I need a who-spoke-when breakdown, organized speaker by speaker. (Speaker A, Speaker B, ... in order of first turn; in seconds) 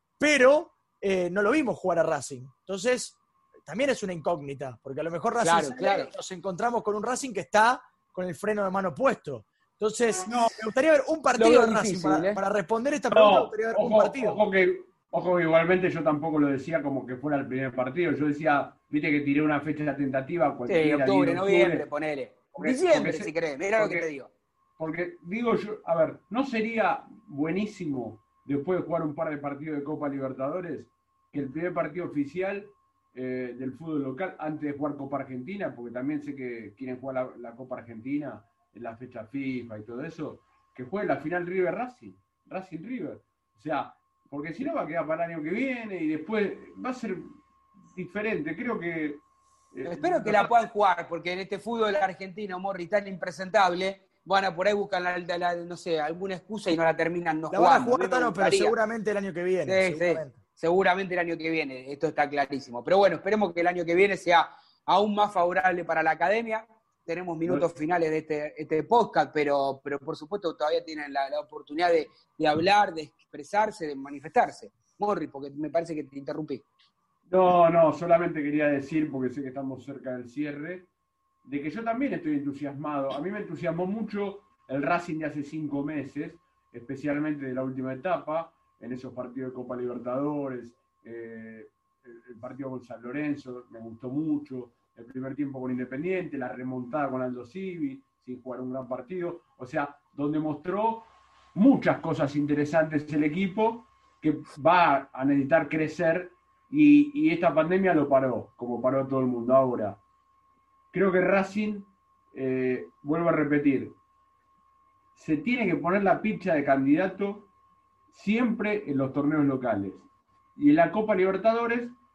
Speaker A: 0.2-14.4, 57.5-60.4
Speaker B: 5.4-6.1, 11.4-12.4, 20.7-24.3, 49.9-58.7, 59.7-76.7
Speaker C: 10.3-10.6, 13.1-21.9, 22.5-24.1, 24.8-47.3, 48.0-50.5, 77.3-80.9, 81.4-110.0, 110.9-114.0, 115.1-117.5, 118.1-122.0